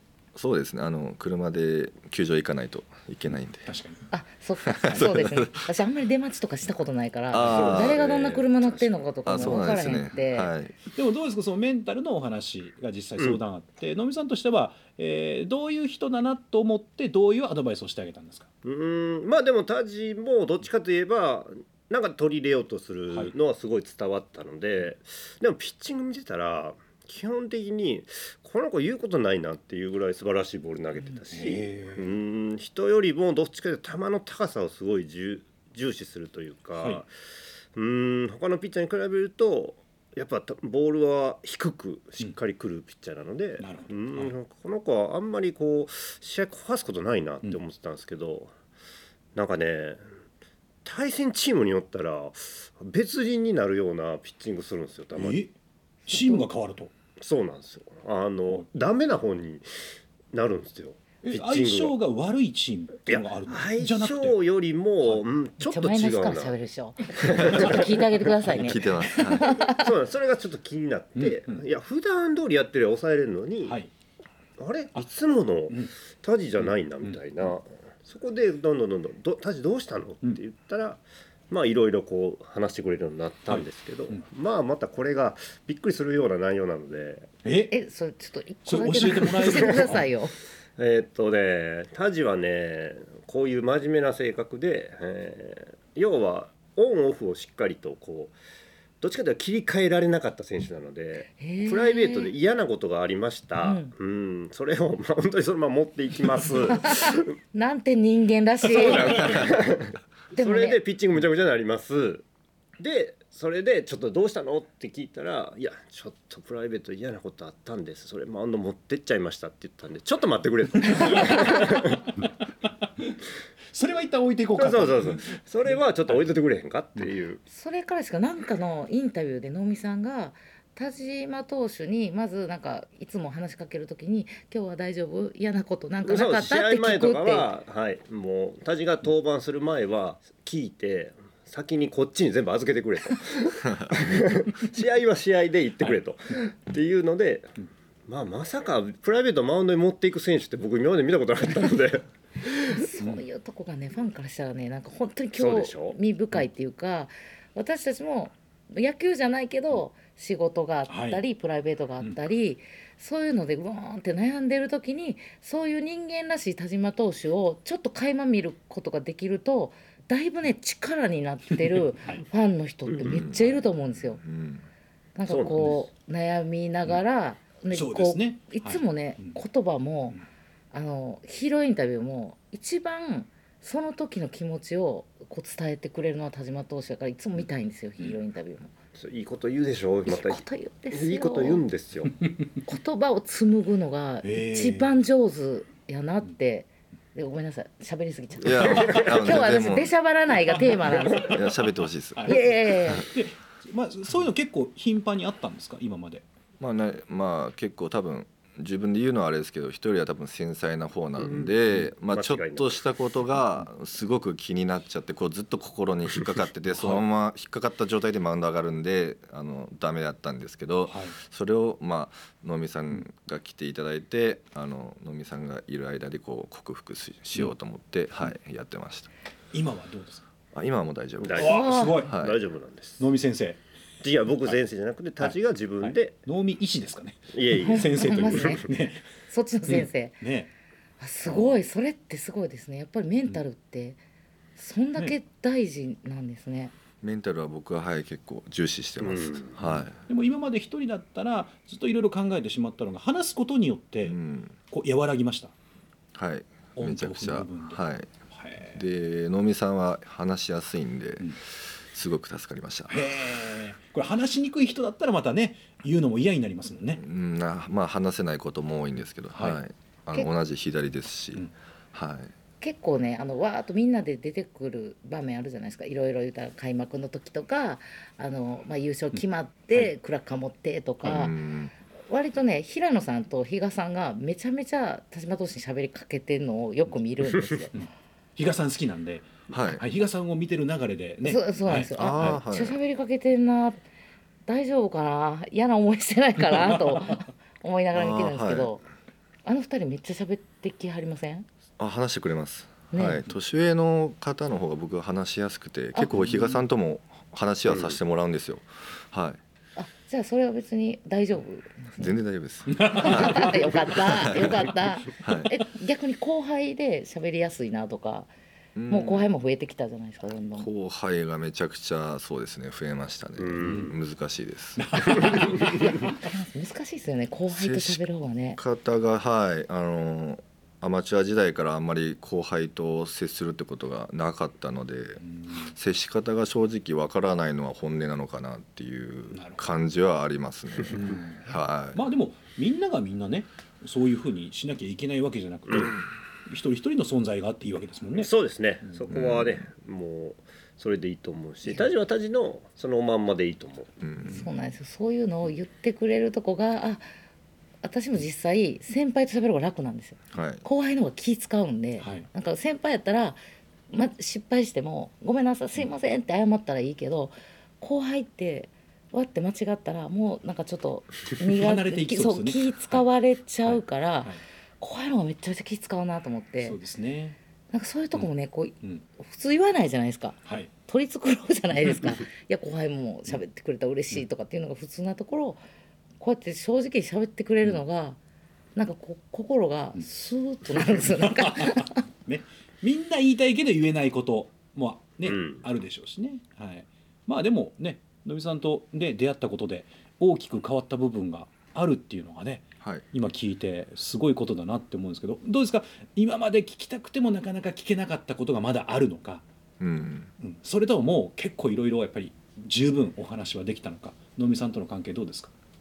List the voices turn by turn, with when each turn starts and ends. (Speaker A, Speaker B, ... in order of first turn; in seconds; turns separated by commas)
Speaker A: 0.3-3.7, Speaker B: 3.6-4.0, Speaker C: 4.1-10.5, Speaker A: 4.6-5.7, Speaker A: 7.3-8.3, Speaker D: 7.4-8.9, Speaker A: 9.2-10.8, Speaker B: 10.9-18.5, Speaker D: 18.6-37.1, Speaker B: 31.3-32.1, Speaker B: 36.8-37.0, Speaker D: 37.7-48.5, Speaker B: 43.6-44.3, Speaker D: 49.3-50.0, Speaker D: 50.8-55.4, Speaker B: 55.1-55.5, Speaker B: 56.1-56.9, Speaker C: 56.1-56.4, Speaker D: 57.2-59.6, Speaker D: 60.3-61.9, Speaker B: 61.2-64.4, Speaker D: 63.1-66.5, Speaker C: 65.6-69.9, Speaker D: 67.2-68.1, Speaker A: 68.5-69.5, Speaker D: 69.6-73.8, Speaker B: 71.2-71.6, Speaker D: 74.6-87.3, Speaker B: 83.5-84.2, Speaker B: 87.4-87.7, Speaker C: 87.7-90.3, Speaker B: 88.7-90.1, Speaker D: 89.6-89.8, Speaker D: 90.8-98.3, Speaker D: 99.0-107.3, Speaker C: 101.4-102.3, Speaker C: 103.6-103.9, Speaker C: 106.8-109.4, Speaker D: 108.6-112.2, Speaker A: 109.2-109.5, Speaker C: 110.3-110.8, Speaker D: 112.8-122.1, Speaker B: 120.9-121.6, Speaker B: 122.8-123.1, Speaker B: 123.7-126.2, Speaker D: 124.5-127.4, Speaker C: 127.5-137.5, Speaker D: 136.0-147.5, Speaker D: 148.1-152.6, Speaker C: 152.7-174.2, Speaker D: 155.3-156.0, Speaker B: 160.9-161.2, Speaker A: 173.1-174.6, Speaker C: 175.2-180.2, Speaker D: 175.3-175.8, Speaker B: 177.7-179.4, Speaker C: 180.7-188.7, Speaker D: 188.9-192.2, Speaker C: 190.1-191.6, Speaker C: 192.6-201.4, Speaker B: 194.2-194.9, Speaker A: 198.4-199.9, Speaker B: 200.5-206.2, Speaker A: 201.1-202.4, Speaker C: 202.2-203.1, Speaker A: 206.6-229.1, Speaker D: 211.2-211.5, Speaker D: 212.1-212.8, Speaker B: 216.7-217.0, Speaker B: 220.9-221.2, Speaker B: 229.5-230.2, Speaker A: 230.5-232.4, Speaker D: 231.2-233.1, Speaker B: 231.3-232.2, Speaker C: 231.4-232.0, Speaker B: 233.0-233.6, Speaker D: 234.0-236.1, Speaker B: 235.2-239.0, Speaker D: 237.3-238.6, Speaker C: 237.5-238.7, Speaker C: 239.3-240.2, Speaker B: 239.7-240.5, Speaker C: 241.0-244.0, Speaker C: 244.6-246.7, Speaker A: 247.0-250.0, Speaker D: 249.0-249.5, Speaker B: 249.6-254.2, Speaker A: 254.0-254.5, Speaker B: 254.7-255.5, Speaker A: 256.1-258.1, Speaker B: 256.8-258.8, Speaker A: 258.7-261.4, Speaker A: 261.9-263.0, Speaker B: 262.9-267.0, Speaker A: 267.0-272.3, Speaker B: 269.3-269.6, Speaker C: 272.6-281.4, Speaker A: 281.0-281.7, Speaker C: 282.1-287.7, Speaker B: 287.7-292.4, Speaker A: 289.5-289.8, Speaker C: 291.2-293.8, Speaker A: 291.9-292.8, Speaker C: 294.5-298.8, Speaker A: 297.9-298.7, Speaker C: 299.4-301.4, Speaker A: 301.8-309.4, Speaker C: 302.9-303.2, Speaker C: 305.9-306.6, Speaker D: 307.7-308.0, Speaker C: 309.8-312.1, Speaker A: 312.0-314.6, Speaker B: 312.7-313.6, Speaker C: 312.9-318.3, Speaker A: 315.2-315.5, Speaker A: 318.7-319.3, Speaker C: 318.9-320.7, Speaker A: 320.6-325.5, Speaker D: 323.4-323.9, Speaker B: 324.8-325.8, Speaker C: 325.2-328.6, Speaker D: 325.5-325.8, Speaker A: 327.5-328.0, Speaker A: 328.6-342.0, Speaker B: 335.2-335.7, Speaker B: 339.3-339.6, Speaker B: 340.9-348.3, Speaker D: 348.2-353.9, Speaker A: 349.1-349.5, Speaker A: 354.0-354.4, Speaker B: 354.2-354.5, Speaker C: 354.3-357.0, Speaker C: 357.8-363.4, Speaker A: 360.3-360.6, Speaker B: 362.0-362.3, Speaker C: 363.9-376.8, Speaker B: 371.5-373.0, Speaker B: 373.6-374.4, Speaker B: 376.6-377.4, Speaker C: 377.7-385.6, Speaker B: 380.4-380.7, Speaker C: 386.2-388.2, Speaker C: 388.8-392.0, Speaker B: 391.0-409.4, Speaker D: 395.2-395.6, Speaker A: 409.8-410.3, Speaker B: 410.4-415.5